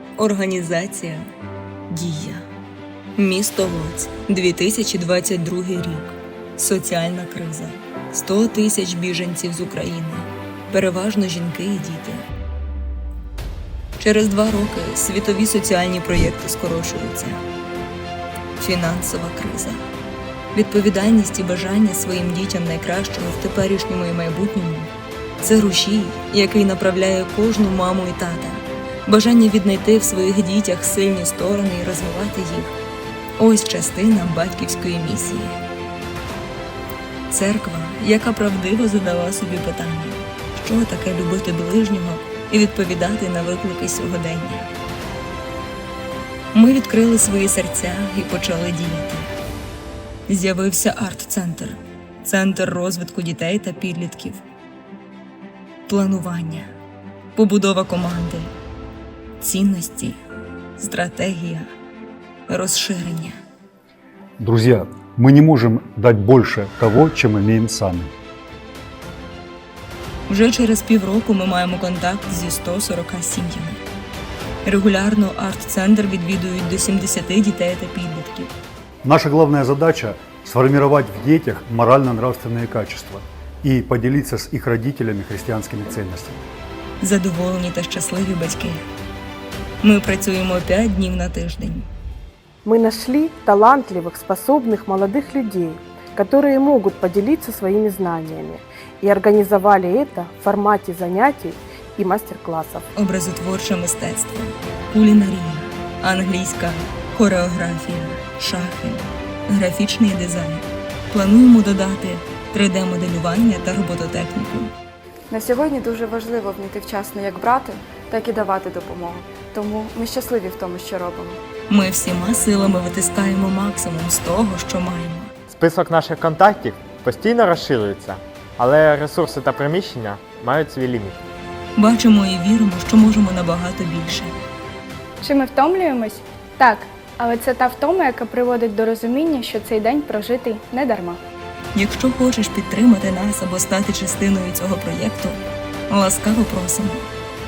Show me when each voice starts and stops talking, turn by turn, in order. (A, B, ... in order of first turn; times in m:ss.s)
0:00.2-0:01.3 A
0:01.9-0:02.4 A
0:03.2-0:12.2 A
0:14.0-0:17.4 A
0:18.6-0:19.8 A
0:20.5-0:32.7 A
0:33.4-0:35.6 A
0:37.3-0:44.7 A
0:46.5-0:49.3 A
0:50.3-0:54.4 A
0:55.9-0:56.7 A
0:57.4-0:58.5 A
0:59.4-1:00.2 A
1:00.8-1:01.7 A
1:02.5-1:03.4 A
1:04.4-1:08.1 B
1:10.3-1:13.8 A
1:14.6-1:18.5 A
1:19.0-1:26.4 B
1:27.0-1:28.8 A
1:29.8-1:31.9 A
1:32.6-1:42.8 C
1:43.0-1:54.7 A
1:55.3-2:01.4 D
2:01.7-2:05.3 A
2:05.5-2:11.2 E
2:11.8-2:14.3 A
2:15.2-2:21.2 F
2:21.7-2:25.4 A
2:25.9-2:27.0 A